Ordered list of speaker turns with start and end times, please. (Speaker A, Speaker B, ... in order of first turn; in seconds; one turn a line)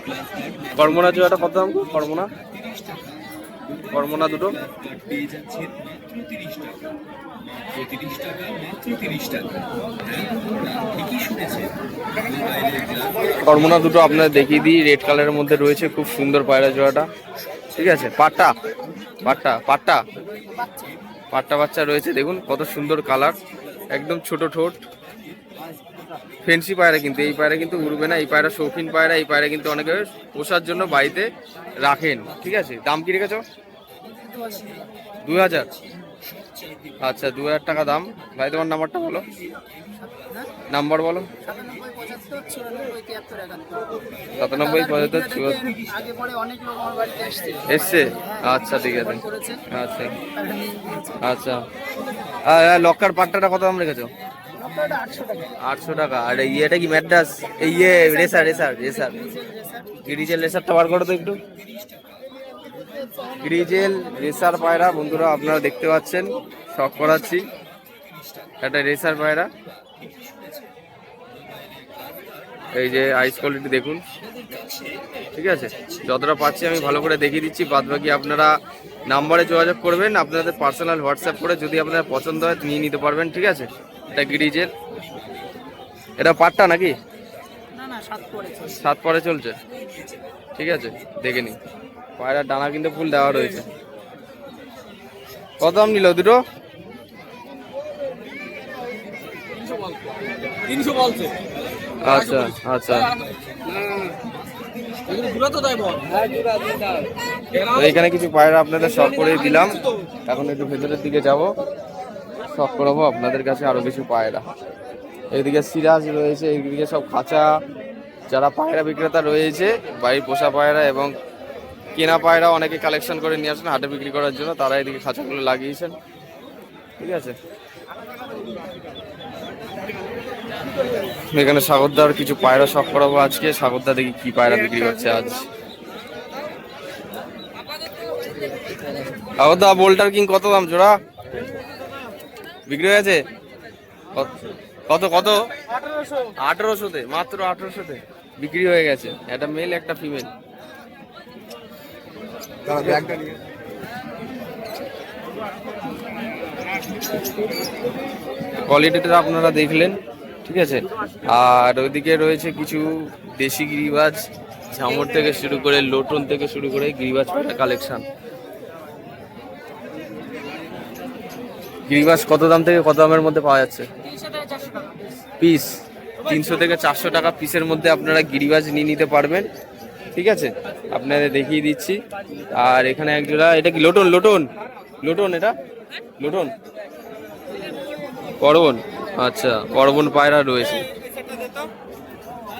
Speaker A: 0.7-2.3
Speaker A: 3.9-4.5
Speaker A: 13.2-17.1
Speaker A: 17.7-18.5
Speaker A: 19.2-20.0
Speaker A: 21.3-23.4
Speaker A: 23.9-24.8
Speaker A: 26.4-31.3
Speaker A: 31.8-33.4
Speaker B: 34.2-34.7
Speaker A: 35.2-35.7
Speaker A: 37.0-39.2
Speaker A: 40.7-41.3
Speaker B: 41.5-43.9
Speaker C: 41.5-41.9
Speaker A: 44.4-45.8
Speaker C: 45.8-47.6
Speaker B: 45.9-47.6
Speaker A: 47.6-50.2
Speaker C: 50.2-51.0
Speaker B: 50.3-51.1
Speaker A: 51.2-51.6
Speaker A: 52.4-54.1
Speaker C: 54.6-55.5
Speaker A: 55.6-59.2
Speaker B: 59.4-59.8
Speaker A: 60.0-61.4
Speaker A: 63.4-67.5
Speaker A: 68.6-69.5
Speaker A: 72.8-74.0
Speaker A: 75.3-78.5
Speaker A: 79.1-84.7
Speaker A: 86.2-86.9
Speaker B: 87.8-88.6
Speaker A: 88.6-89.5
Speaker A: 90.6-91.6
Speaker A: 92.2-93.7
Speaker A: 95.6-96.4
Speaker C: 100.7-101.3
Speaker A: 102.0-103.2
Speaker C: 103.8-104.1
Speaker C: 105.1-107.1
Speaker A: 107.6-111.5
Speaker A: 112.5-114.5
Speaker A: 115.3-117.5
Speaker A: 118.3-121.1
Speaker A: 121.9-126.0
Speaker A: 127.0-127.4
Speaker A: 131.3-135.5
Speaker A: 139.4-140.9
Speaker A: 142.7-143.2
Speaker A: 144.9-145.4
Speaker A: 146.2-150.3
Speaker C: 152.7-153.4
Speaker A: 152.8-153.2
Speaker A: 158.6-168.0
Speaker A: 171.9-173.9
Speaker B: 174.4-174.9
Speaker A: 175.4-179.5
Speaker A: 180.1-182.0
Speaker A: 182.5-184.5
Speaker A: 185.0-185.6
Speaker A: 186.2-186.5
Speaker A: 188.4-190.8